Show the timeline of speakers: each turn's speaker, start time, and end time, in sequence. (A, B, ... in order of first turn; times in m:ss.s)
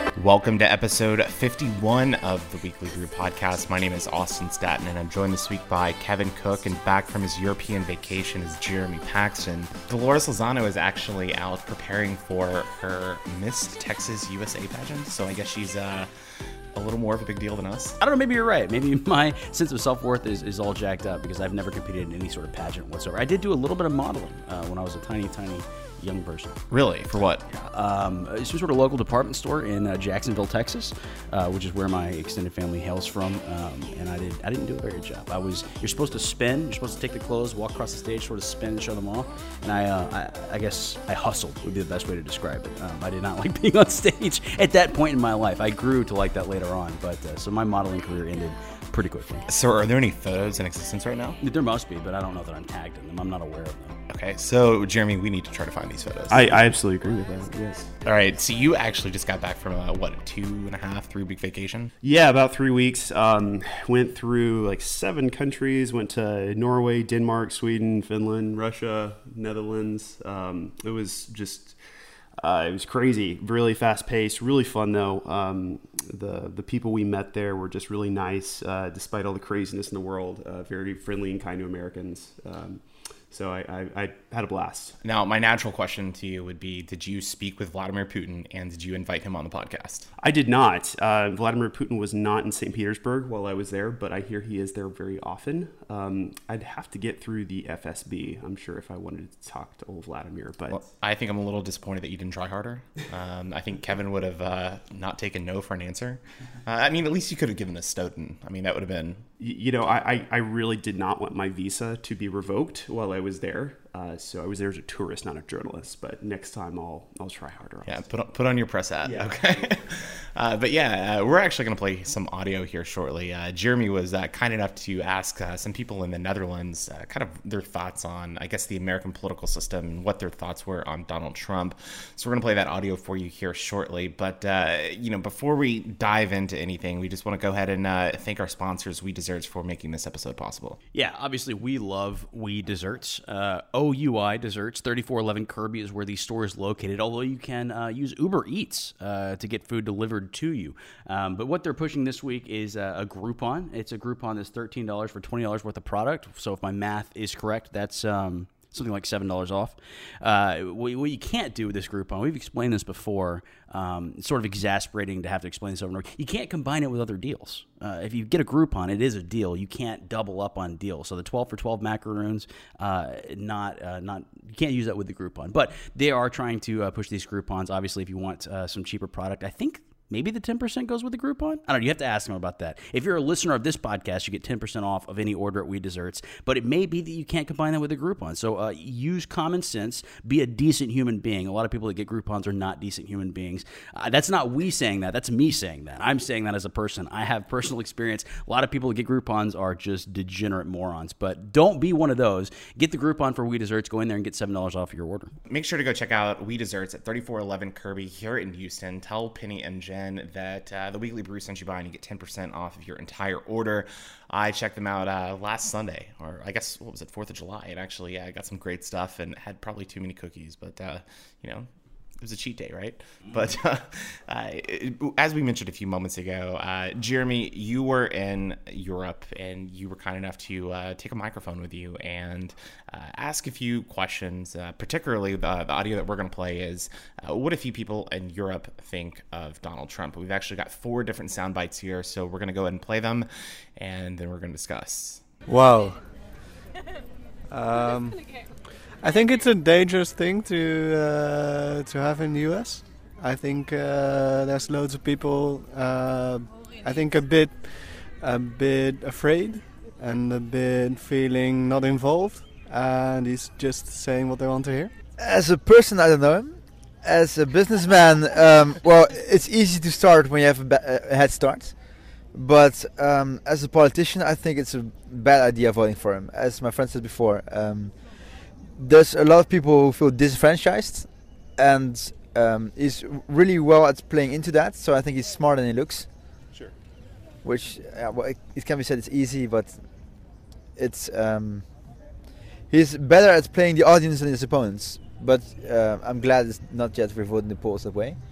0:00.2-0:16.1 A
0:16.7-0:18.0 A
0:18.0-0:26.5 B
0:26.7-0:27.4 A
0:27.5-0:49.4 B
0:49.5-0:51.4 A
0:51.4-0:54.0 B
0:54.1-0:56.6 A
0:56.3-0:58.0 C
0:58.0-1:01.9 A
1:02.0-1:11.8 C
1:12.4-1:25.0 C
1:25.0-1:30.1 A
1:30.2-1:40.8 C
1:40.7-1:49.2 A
1:49.4-1:58.0 C
1:57.8-2:20.8 A
1:59.0-1:59.9 C
2:20.9-3:25.3 B
3:25.5-3:41.7 A
3:42.2-4:05.2 A
4:05.4-4:06.0 D
4:07.5-4:08.2 D
4:09.0-4:24.9 D
4:25.2-4:31.8 E
4:32.3-4:38.0 E
4:38.7-4:46.1 E
4:47.4-4:49.8 E
4:50.8-4:51.7 E
4:52.7-4:58.2 E